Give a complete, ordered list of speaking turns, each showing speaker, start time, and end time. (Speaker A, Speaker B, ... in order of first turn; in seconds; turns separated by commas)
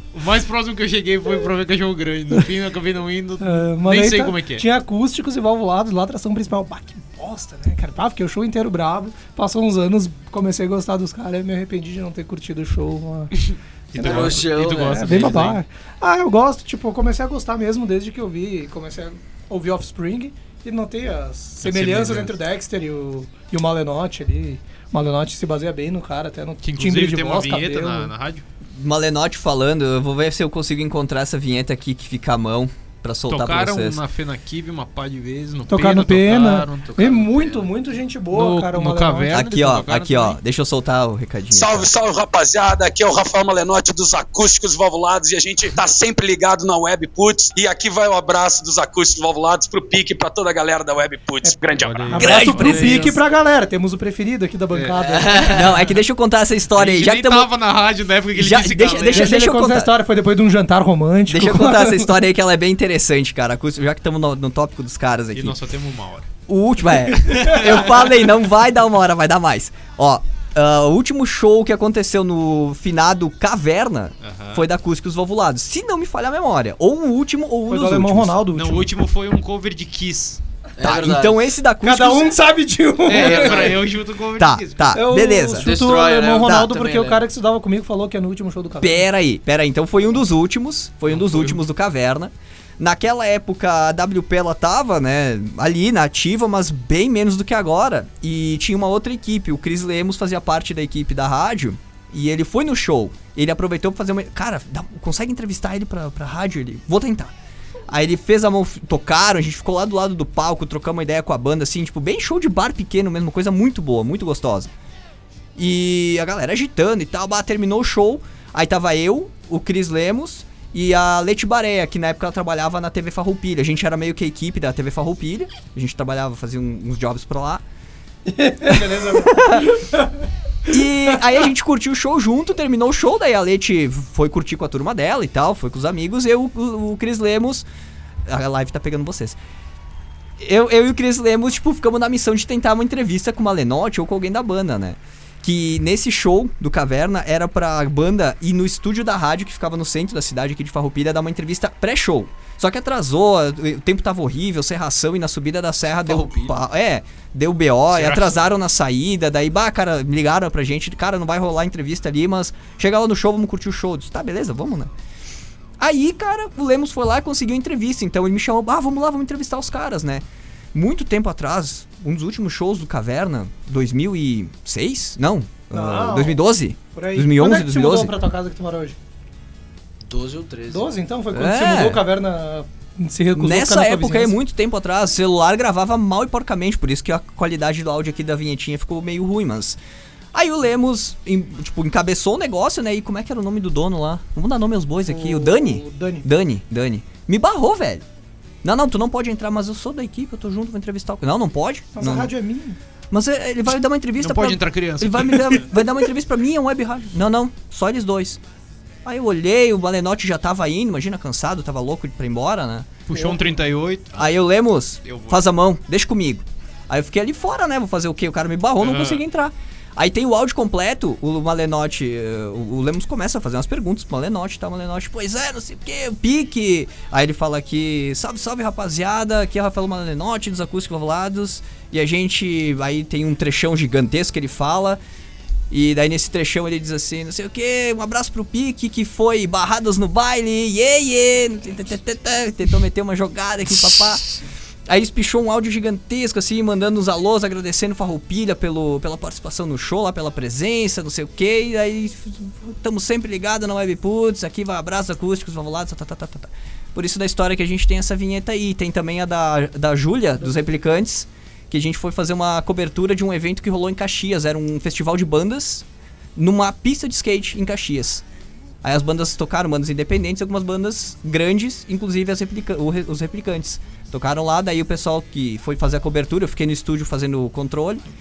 Speaker A: 0.1-4.6, Speaker B: 3.4-13.3, Speaker A: 13.3-15.6, Speaker B: 13.9-28.1, Speaker C: 13.9-15.4, Speaker A: 21.6-22.3, Speaker A: 26.6-28.4, Speaker D: 28.7-34.0, Speaker A: 33.3-37.1, Speaker B: 35.7-39.4, Speaker C: 36.9-37.7, Speaker A: 38.3-40.4, Speaker D: 39.3-41.9, Speaker E: 41.5-52.5, Speaker B: 51.4-55.7, Speaker A: 51.8-53.2, Speaker D: 52.2-53.1, Speaker A: 54.7-55.0, Speaker C: 55.0-55.7, Speaker D: 55.5-57.5, Speaker A: 56.7-59.3, Speaker D: 58.3-59.9, Speaker B: 59.1-62.2, Speaker D: 61.3-65.5, Speaker A: 65.3-66.3, Speaker D: 66.5-78.4, Speaker A: 67.1-68.2, Speaker A: 74.2-74.7, Speaker B: 77.7-78.9, Speaker A: 78.5-80.4, Speaker C: 80.8-81.5, Speaker D: 80.8-82.3, Speaker B: 81.8-83.8, Speaker A: 83.1-85.0, Speaker C: 83.1-83.8, Speaker D: 84.4-85.7, Speaker B: 84.9-89.1, Speaker C: 85.6-87.2, Speaker D: 86.4-86.7, Speaker D: 88.8-107.3, Speaker A: 91.1-91.6, Speaker D: 107.9-114.7, Speaker D: 115.5-127.6, Speaker B: 128.2-131.2, Speaker D: 129.0-129.8, Speaker D: 130.7-137.7, Speaker D: 138.2-139.4, Speaker D: 140.4-164.9, Speaker C: 156.0-156.6, Speaker A: 157.9-158.5, Speaker D: 165.8-178.1, Speaker B: 175.7-176.4, Speaker B: 176.9-179.0, Speaker C: 180.0-180.9, Speaker B: 180.7-184.4, Speaker D: 181.3-182.0, Speaker D: 183.3-189.8, Speaker D: 190.3-198.0, Speaker B: 195.1-196.3, Speaker D: 198.6-202.3, Speaker B: 201.9-202.8, Speaker D: 203.1-208.4, Speaker A: 204.2-205.8, Speaker D: 209.0-212.9, Speaker A: 213.1-214.3, Speaker B: 213.1-213.5, Speaker D: 214.2-235.0, Speaker A: 215.0-215.4, Speaker A: 218.8-219.2, Speaker D: 235.7-244.3, Speaker D: 244.9-265.8, Speaker D: 266.4-268.2, Speaker D: 268.8-278.0